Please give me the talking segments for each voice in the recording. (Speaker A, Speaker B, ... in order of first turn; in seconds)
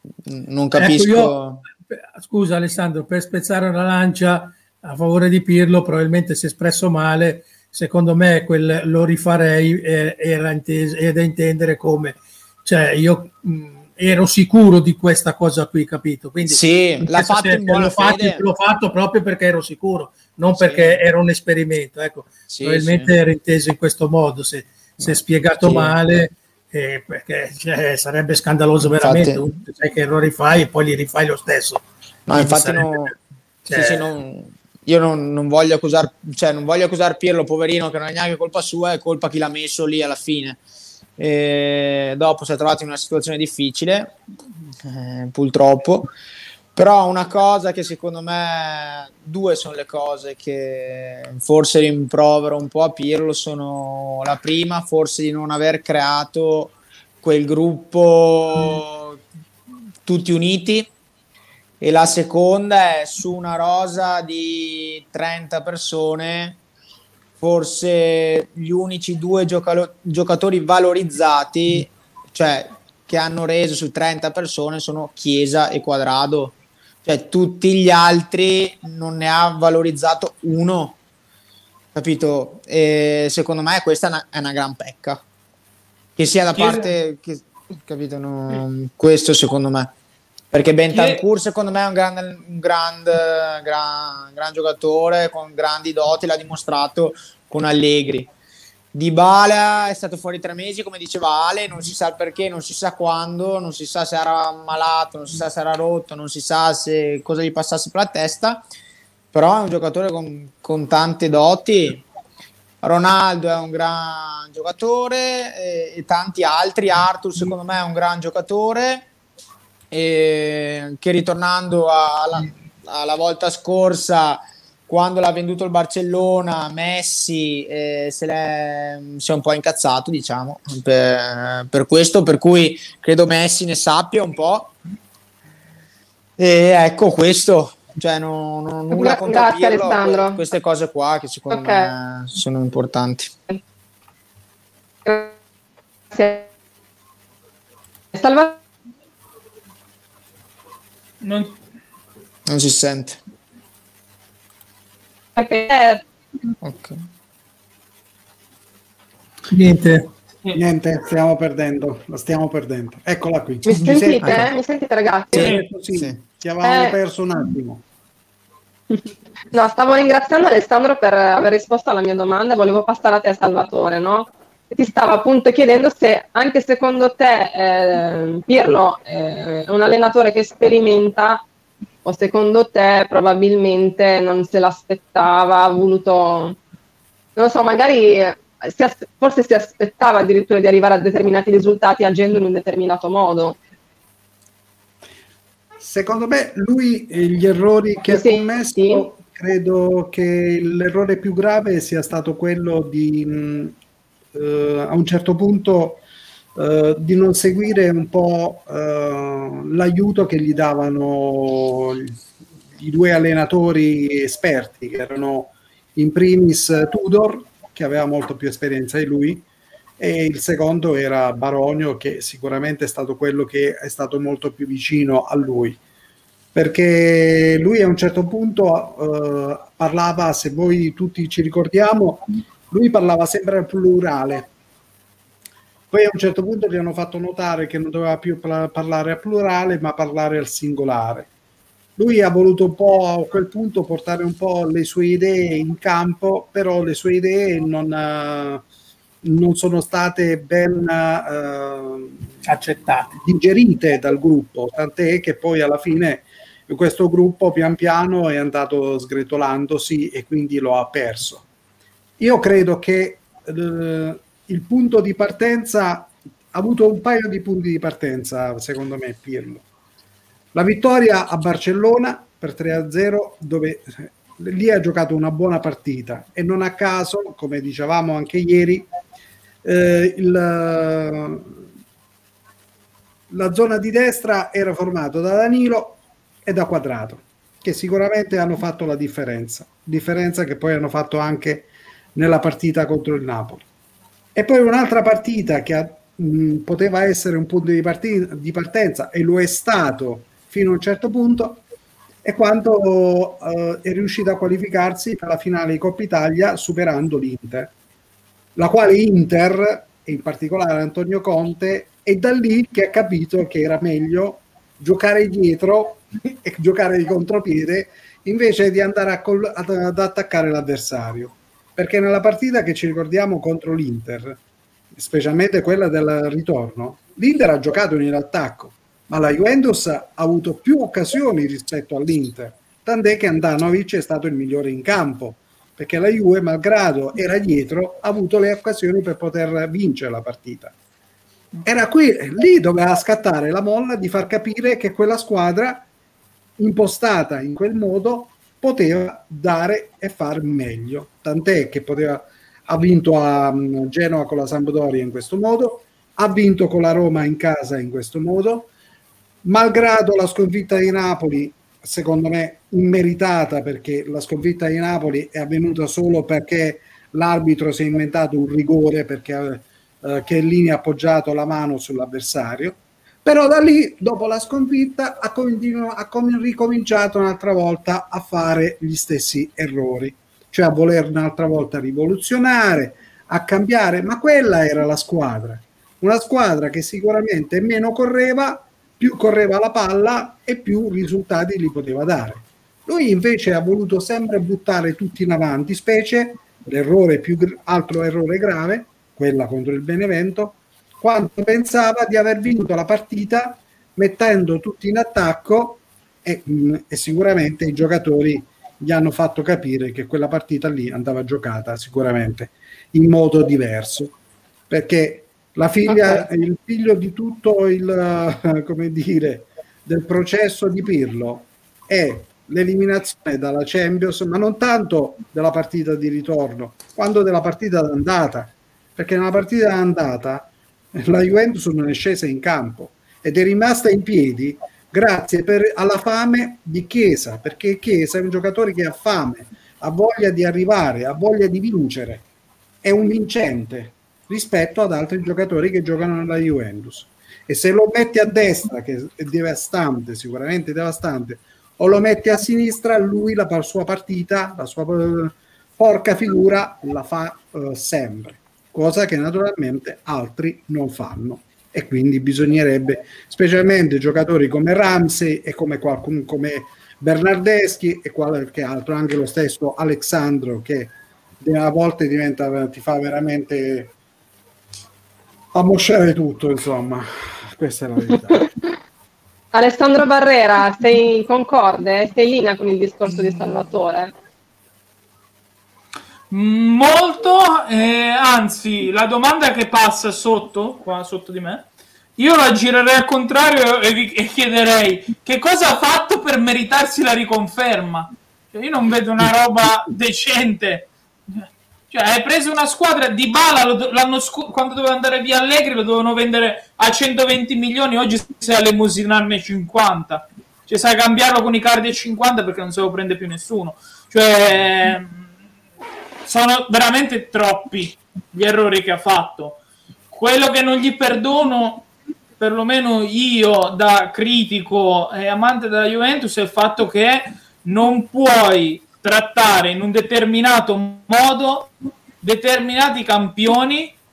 Speaker A: 0.3-1.6, 16.4-18.4, 20.5-21.0, 22.5-23.1, 25.0-25.9, 28.9-29.4, 32.3-33.1, 33.7-40.6, 41.2-44.2, 44.8-46.1, 46.7-59.2, 60.0-60.9, 61.8-66.6, 67.4-81.0, 82.0-85.2, 86.2-89.9, 90.5-98.3, 98.9-108.6, 109.3-112.0, 112.8-119.1, 119.9-134.7, 136.4-143.3, 152.5-153.2, 156.6-157.0, 164.2-164.5, 165.3-166.1
Speaker B: 0.8-1.4, 1.9-33.1, 33.7-34.1, 159.5-160.1, 252.4-253.1
Speaker C: 86.5-86.9, 90.9-91.2, 151.2-151.6, 486.3-491.7, 492.2-515.3, 516.2-519.6, 520.1-521.9, 522.4-534.0
Speaker D: 138.9-140.4, 141.5-141.9, 145.1-145.4, 146.1-146.5, 148.1-148.6, 155.4-156.1, 163.6-165.5, 166.6-166.9, 169.5-181.4, 182.1-186.6, 187.4-193.6, 198.1-199.1, 415.9-416.2, 479.5-484.1
Speaker E: 160.5-164.5, 165.3-167.8, 195.8-203.8, 204.3-206.0, 206.6-212.2, 212.8-219.4, 220.0-225.8, 226.5-234.5, 235.9-241.3, 242.0-248.6, 249.2-252.3, 253.2-261.4, 262.2-269.7, 270.5-278.9, 279.6-281.7, 283.3-293.7, 294.4-301.6, 302.2-307.7, 308.6-324.4, 324.9-340.7, 341.6-345.9, 346.6-358.7, 359.4-414.2, 414.7-442.2, 442.8-473.9, 475.5-478.5